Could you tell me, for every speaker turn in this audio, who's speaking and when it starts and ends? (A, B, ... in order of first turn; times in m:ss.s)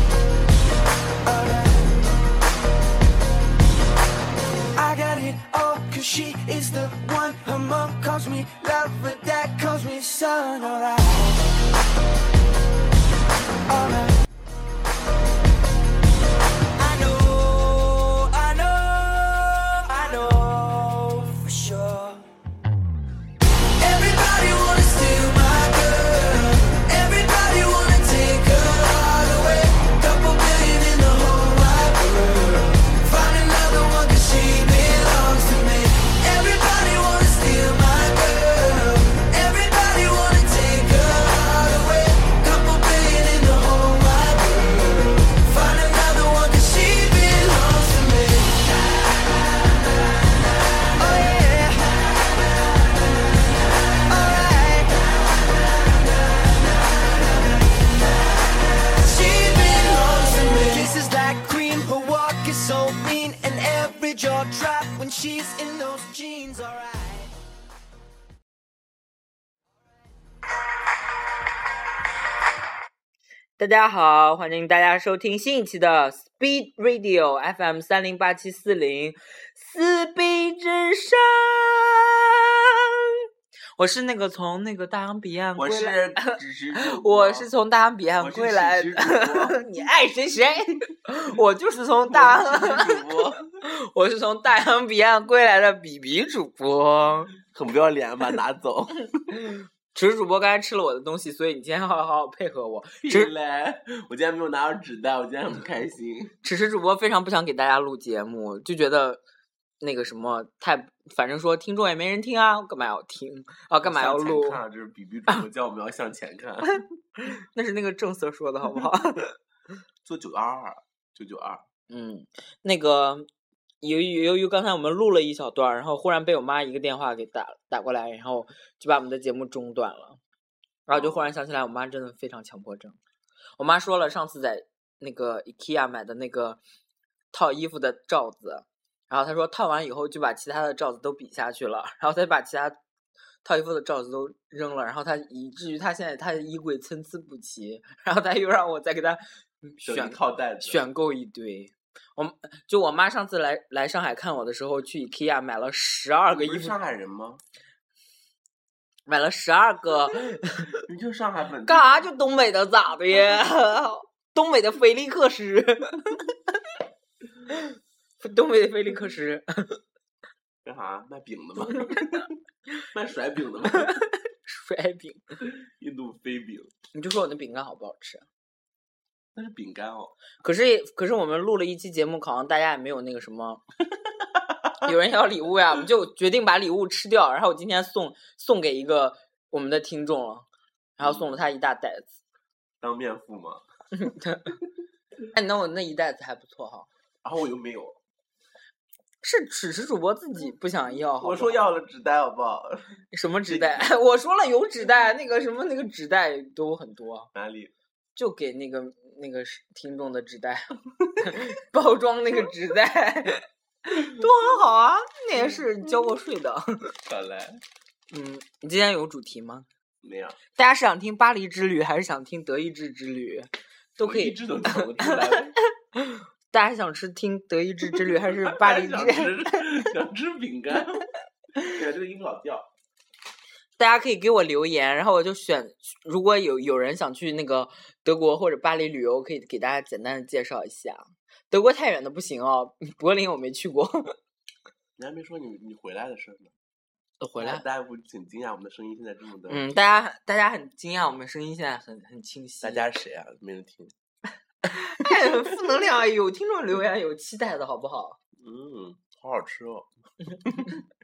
0:01.2-0:01.9 A
0:04.7-0:11.6 A
0:13.7-0:14.1 A
0:16.8-0:22.2 A
0:23.8-0:49.1 A
0:51.0-0:52.8 A
0:54.0-0:55.1 A
0:56.3-0:57.0 A
0:58.9-1:07.3 A
1:13.6-1:23.1 B
1:23.8-1:37.3 B
1:25.6-1:27.5 C
1:28.2-1:29.6 C
1:32.1-1:33.4 C
1:37.4-1:39.4 C
1:39.3-1:43.3 B
1:43.0-1:46.3 C
1:46.4-1:49.2 B
1:49.8-1:54.6 B
1:53.8-1:56.8 C
1:56.7-1:59.4 B
2:00.0-2:01.6 C
2:01.9-2:03.3 B
2:03.8-2:10.2 B
2:10.9-2:13.0 B
2:10.9-2:11.3 C
2:13.6-2:16.6 B
2:17.3-2:22.8 B
2:23.4-2:36.8 B
2:29.8-2:30.8 C
2:36.3-2:37.4 C
2:39.0-2:40.8 B
2:40.8-2:42.1 C
2:41.6-2:46.3 B
2:47.6-2:49.8 B
2:50.6-2:52.4 C
2:52.9-2:54.0 C
2:53.8-2:55.4 B
2:55.4-2:56.7 C
2:56.9-2:58.2 B
2:59.3-3:00.1 C
3:00.4-3:03.6 B
3:04.1-3:04.9 C
3:04.8-3:12.1 B
3:11.0-3:11.3 C
3:12.8-3:13.6 C
3:13.9-3:14.6 B
3:15.3-3:16.9 B
3:17.2-3:18.0 C
3:19.2-3:21.6 B
3:21.0-3:23.8 C
3:23.1-3:27.3 B
3:27.3-3:27.7 C
3:28.1-3:36.9 B
3:37.0-3:37.6 C
3:38.1-3:39.7 B
3:40.0-3:40.4 C
3:40.5-3:49.6 B
3:44.0-3:45.5 C
3:47.9-3:52.7 C
3:53.8-4:04.1 B
4:05.0-4:06.5 C
4:07.2-4:07.6 B
4:07.4-4:09.7 C
4:09.5-4:12.9 B
4:12.6-4:13.9 C
4:14.7-4:18.2 B
4:15.1-4:15.6 C
4:18.4-4:19.9 C